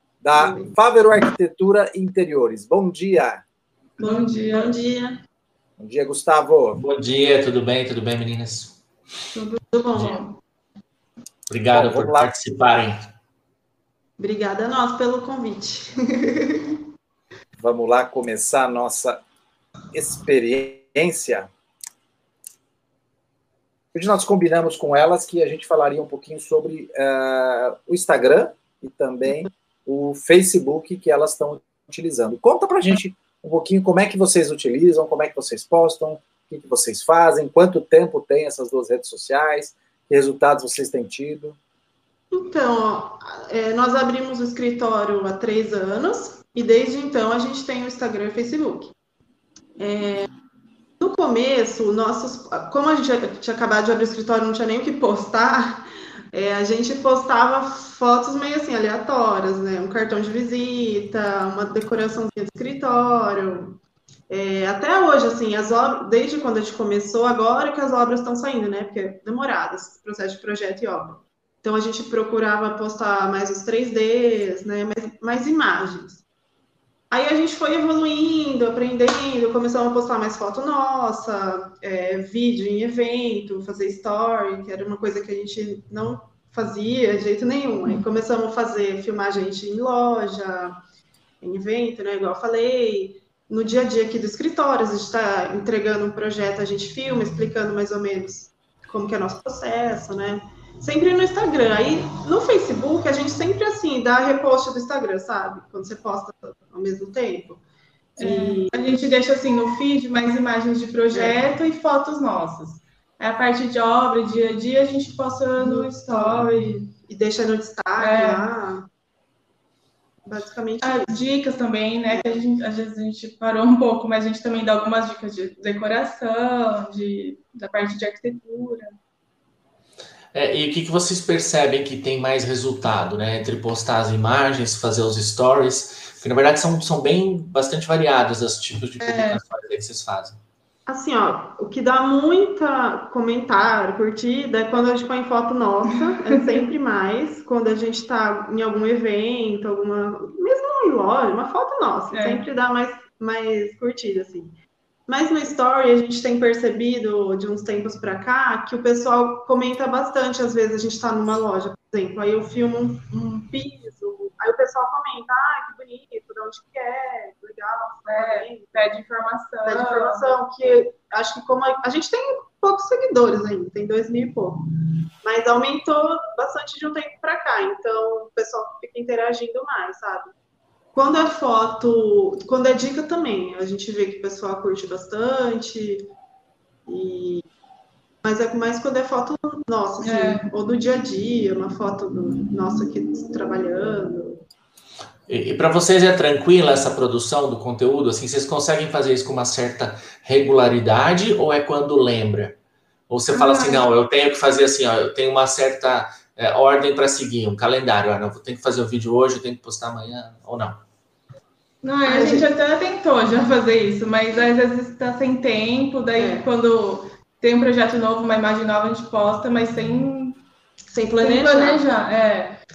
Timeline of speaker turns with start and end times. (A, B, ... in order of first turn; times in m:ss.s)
0:00.2-0:03.4 A
0:00.3-0:00.8 B
0:04.0-0:04.7 C
0:04.0-0:05.2 B
0:05.8-0:06.8 A
0:06.8-0:08.8 D
0:09.3-0:10.3 B
0:11.5-0:13.0 D
0:11.7-0:12.3 A
0:14.2-0:16.8 B
0:17.6-0:19.2 A
0:19.9-0:21.5 A
0:23.9-0:41.6 A
0:42.3-0:48.9 B
0:49.8-0:50.3 B
0:51.0-1:03.8 B
1:04.3-1:16.2 B
1:17.1-1:30.8 B
1:31.4-1:47.6 B
1:48.2-1:56.8 C
1:48.2-1:49.1 B
1:55.6-1:58.9 B
1:58.0-1:58.5 C
2:00.2-2:01.2 B
2:00.8-2:08.9 C
2:02.1-2:02.4 B
2:10.3-2:20.4 D
2:19.0-2:19.4 C
2:20.9-2:34.5 B
2:32.1-2:32.4 C
2:35.1-2:48.8 B
2:48.1-2:50.3 C
2:49.6-2:54.7 B
2:55.2-3:00.3 B
3:00.9-3:06.1 B
3:06.9-3:07.5 B
3:08.2-3:14.4 B
3:10.0-3:10.5 C
3:15.3-3:30.8 D
3:23.3-3:23.9 C
3:31.8-3:40.4 C
3:32.0-3:32.5 B
3:36.2-3:36.5 B
3:40.9-3:41.8 B
3:41.2-3:42.6 C